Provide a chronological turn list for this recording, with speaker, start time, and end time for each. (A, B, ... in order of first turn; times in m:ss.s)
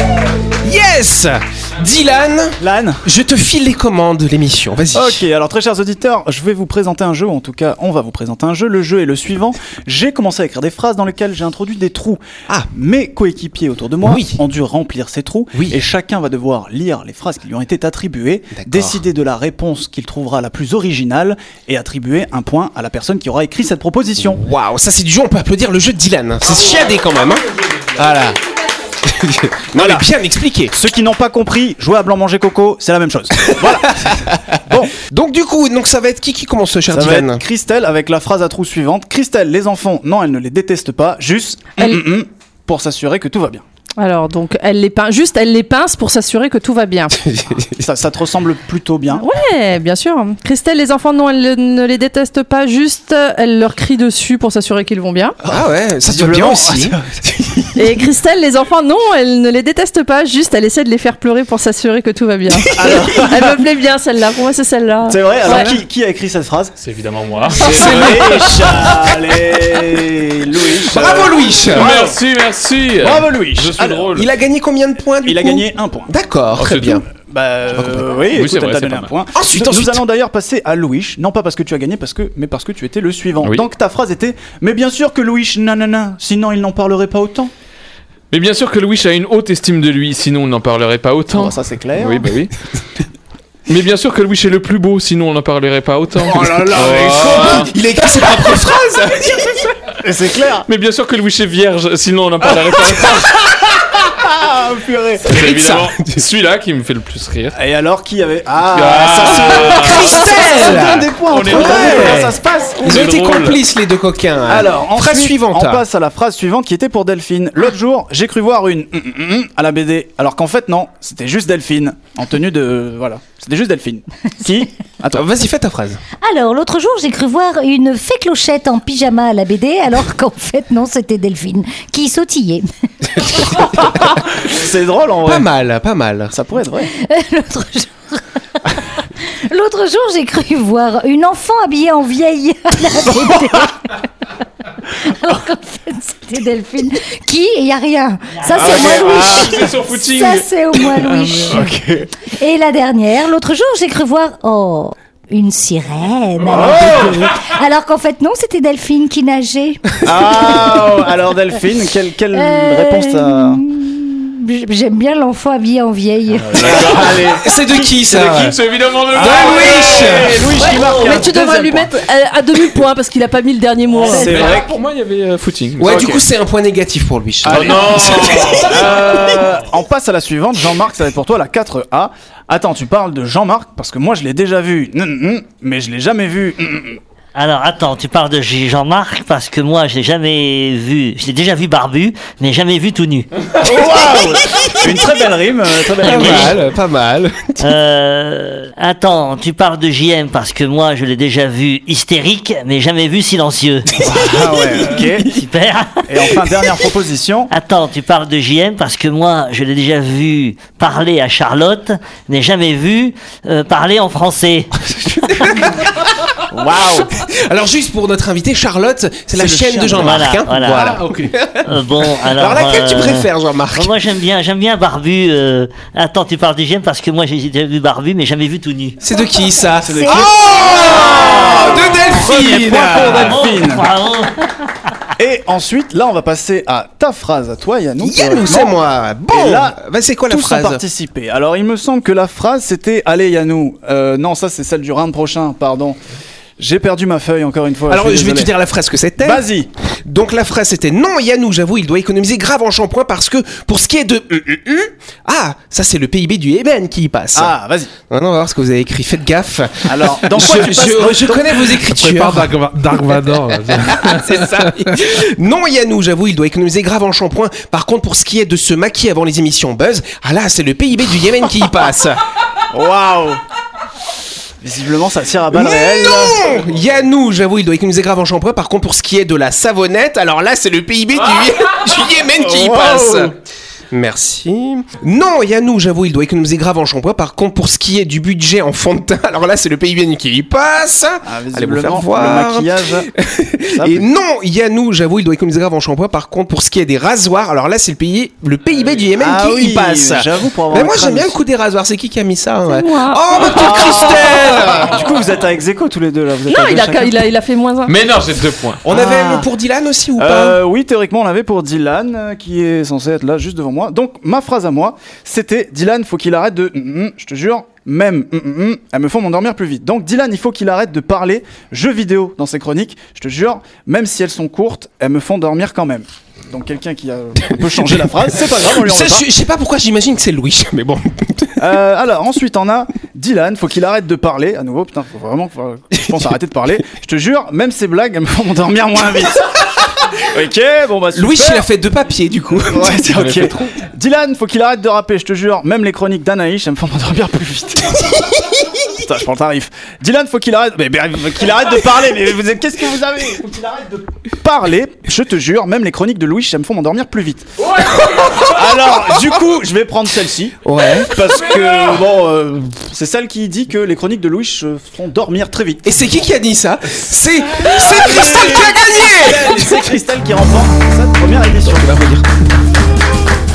0:00.6-0:05.2 A
0:02.6-0:03.0 B
0:04.9-0:24.4 B
0:14.0-0:14.4 A
0:18.6-0:19.0 A
0:24.2-0:28.4 A
0:29.0-0:30.7 A
0:29.7-0:30.1 B
0:30.7-0:34.9 B
0:33.6-0:37.4 A
0:36.9-0:43.6 B
0:41.8-0:42.0 C
0:44.0-0:47.2 C
0:47.3-0:47.8 A
0:47.8-0:49.3 B
0:49.2-0:55.4 C
0:55.4-0:57.6 B
0:55.5-0:57.0 A
0:57.8-1:05.7 C
1:02.7-1:03.6 B
1:05.1-1:06.8 B
1:06.8-1:08.9 D
1:07.5-1:12.2 B
1:07.6-1:08.9 A
1:10.9-1:12.0 A
1:11.6-1:14.3 D
1:13.0-1:14.1 B
1:14.2-1:17.0 A
1:15.2-1:16.1 B
1:16.6-1:17.0 D
1:17.1-1:27.5 B
1:18.2-1:19.1 D
1:19.3-1:20.0 A
1:28.3-1:32.5 D
1:31.3-1:32.4 B
1:33.7-1:37.7 D
1:36.3-1:39.7 A
1:36.3-1:37.7 B
1:40.0-1:40.7 B
1:40.7-1:43.5 D
1:44.1-1:45.3 B
1:45.3-1:47.6 D
1:45.3-1:46.2 A
1:47.5-1:53.1 B
1:48.7-1:52.3 D
1:49.2-1:55.8 A
1:52.8-1:53.6 D
1:54.5-2:05.2 B
2:05.1-2:06.0 A
2:06.2-2:12.7 E
2:13.8-2:15.5 B
2:15.2-2:16.3 A
2:16.3-2:16.9 B
2:16.9-2:18.2 E
2:19.5-2:24.0 E
2:25.0-2:39.8 E
2:28.5-2:31.7 D
2:28.6-2:29.6 B
2:31.5-2:31.8 B
2:36.5-2:37.3 B
2:40.0-2:43.6 B
2:42.3-2:46.8 E
2:46.3-2:47.2 D
2:46.5-2:48.6 B
2:47.4-2:48.6 A
2:48.2-2:51.2 D
2:49.1-2:51.9 B
2:49.2-2:50.5 A
2:51.0-2:54.3 C
2:54.0-2:54.5 E
2:54.1-2:54.8 B
2:54.2-2:56.2 D
2:55.8-2:58.8 A
2:55.9-2:56.2 B
2:57.4-3:07.0 B
2:57.5-2:59.2 D
3:07.4-3:13.3 F
3:13.6-3:16.6 B
3:16.0-3:16.5 F
3:16.0-3:17.6 A
3:17.6-3:24.0 F
3:24.0-3:25.4 B
3:24.0-3:24.4 A
3:25.3-3:26.0 F
3:26.1-3:27.5 B
3:27.5-3:35.6 F
3:34.9-3:35.6 A
3:36.5-3:37.1 B
3:36.6-3:44.0 A
3:39.3-3:40.2 B
3:40.0-3:41.0 F
3:41.6-3:49.0 F
3:49.0-3:53.4 A
3:49.8-3:53.9 B
3:53.2-3:55.0 F
3:55.2-3:58.7 B
3:58.0-4:00.8 A
3:59.3-4:06.0 B
4:06.6-4:08.5 B
4:07.9-4:09.5 A
4:09.2-4:09.7 B
4:10.0-4:17.5 A
4:17.3-4:17.9 B
4:18.1-4:22.6 A
4:19.8-4:21.8 B
4:21.8-4:25.0 G
4:23.2-4:32.2 A
4:32.7-4:33.4 B
4:34.6-4:36.4 B
4:35.5-4:43.4 A
4:42.4-4:43.4 B
4:43.9-5:05.0 A
4:51.2-4:53.1 B
4:53.7-4:54.1 B
4:59.2-5:01.4 B
5:02.7-5:03.2 C
5:03.3-5:07.2 B
5:06.5-5:08.0 C
5:07.9-5:08.8 D
5:08.8-5:10.6 A
5:08.9-5:09.5 B
5:10.2-5:29.3 B
5:27.7-5:28.2 A
5:28.7-5:31.6 A
5:31.6-5:41.7 B
5:41.2-5:43.0 A
5:42.6-5:57.5 B
5:43.1-5:43.5 D
5:58.1-5:58.4 A
5:58.4-6:06.1 B
6:00.6-6:01.2 A
6:05.8-6:09.8 A
6:07.6-6:12.0 B
6:11.6-6:12.3 A